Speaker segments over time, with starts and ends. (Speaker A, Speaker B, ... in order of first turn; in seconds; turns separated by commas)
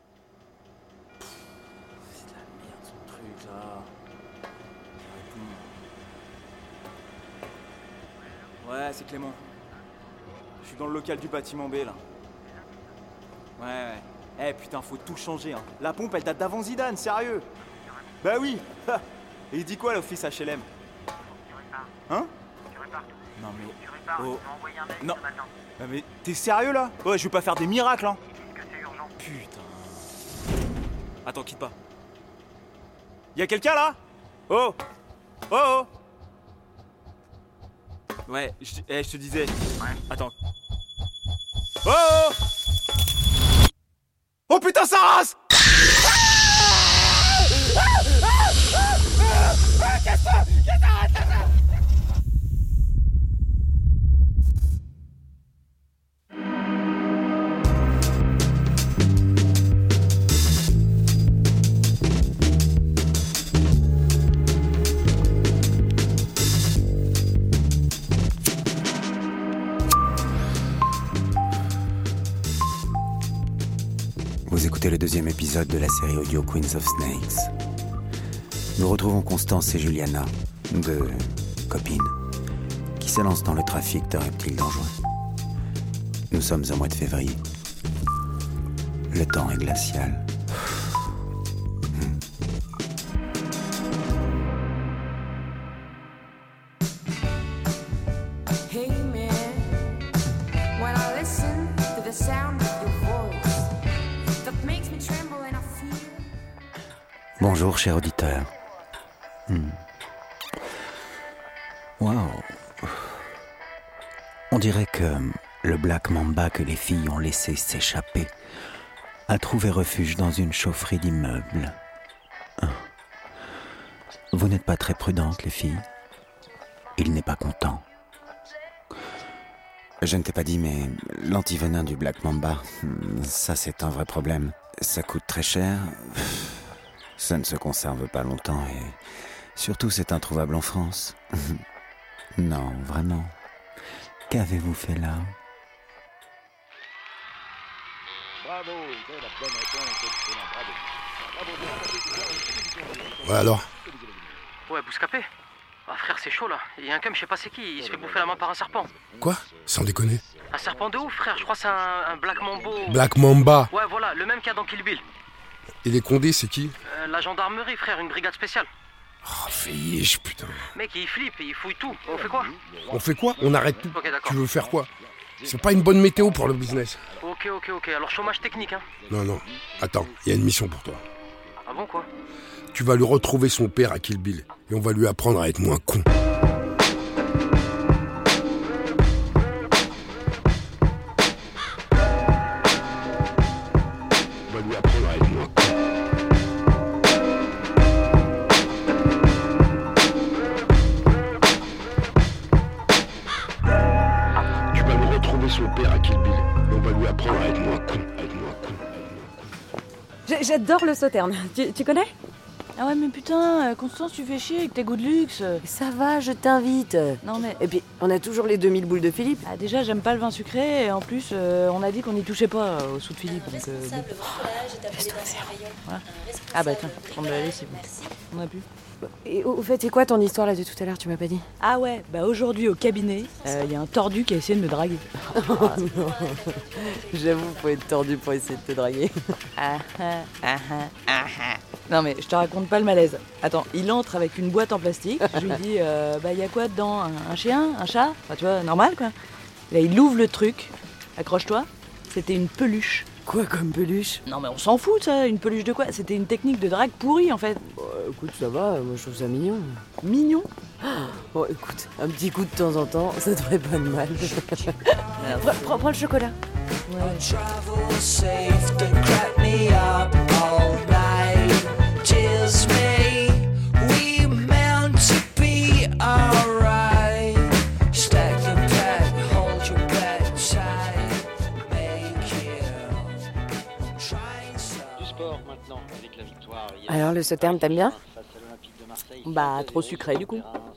Speaker A: 2.4-3.9, Speaker A: 5.0-5.8, Speaker A: 8.6-9.4, Speaker A: 10.6-12.0, Speaker A: 13.6-17.5, Speaker A: 18.2-20.7, Speaker A: 23.4-24.5, Speaker A: 25.8-28.2, Speaker A: 29.2-29.9, Speaker A: 31.2-31.8, Speaker A: 33.4-34.0, Speaker A: 34.5-34.8, Speaker A: 35.5-35.9, Speaker A: 38.3-40.3, Speaker A: 41.8-42.4, Speaker A: 44.5-45.3, Speaker B: 74.5-77.5, Speaker B: 78.8-82.2, Speaker B: 83.0-85.0, Speaker B: 86.3-87.4, Speaker B: 89.1-90.3, Speaker B: 91.9-92.2, Speaker C: 98.7-99.8, Speaker C: 100.8-103.7, Speaker C: 104.4-106.2, Speaker B: 107.4-108.5, Speaker B: 109.5-109.8, Speaker B: 112.0-113.2, Speaker B: 114.5-118.3, Speaker B: 119.3-121.8, Speaker B: 124.3-125.8, Speaker B: 127.0-127.8, Speaker B: 130.0-139.0, Speaker B: 139.6-141.6, Speaker B: 142.4-143.3, Speaker B: 144.3-145.3, Speaker D: 153.2-153.7, Speaker E: 154.7-155.2, Speaker E: 155.9-158.9, Speaker D: 159.2-160.2, Speaker E: 160.5-163.0, Speaker D: 162.9-163.7, Speaker E: 163.7-165.0, Speaker D: 165.8-166.8, Speaker E: 167.2-168.7, Speaker D: 169.2-170.7, Speaker E: 170.9-172.5, Speaker D: 172.9-174.9, Speaker E: 173.9-174.3, Speaker D: 175.4-177.1, Speaker E: 177.2-178.8, Speaker D: 179.1-181.0, Speaker E: 181.7-182.1, Speaker D: 182.7-186.1, Speaker D: 194.5-195.5, Speaker D: 204.7-208.8, Speaker F: 210.3-212.1, Speaker G: 212.8-215.6, Speaker F: 215.6-219.4, Speaker G: 217.2-217.6, Speaker G: 219.5-224.2, Speaker F: 224.2-225.6, Speaker G: 225.8-228.7, Speaker F: 229.2-231.4, Speaker G: 231.6-235.1, Speaker F: 235.3-239.3, Speaker G: 239.6-249.1, Speaker F: 245.2-245.6, Speaker G: 249.7-253.1, Speaker F: 253.3-254.2, Speaker G: 254.3-257.6, Speaker F: 257.6-259.8, Speaker G: 260.0-260.5, Speaker F: 260.8-266.4, Speaker G: 265.2-265.8, Speaker G: 266.9-267.3, Speaker H: 267.2-283.1, Speaker H: 284.0-284.9, Speaker F: 286.8-288.0, Speaker G: 289.2-290.5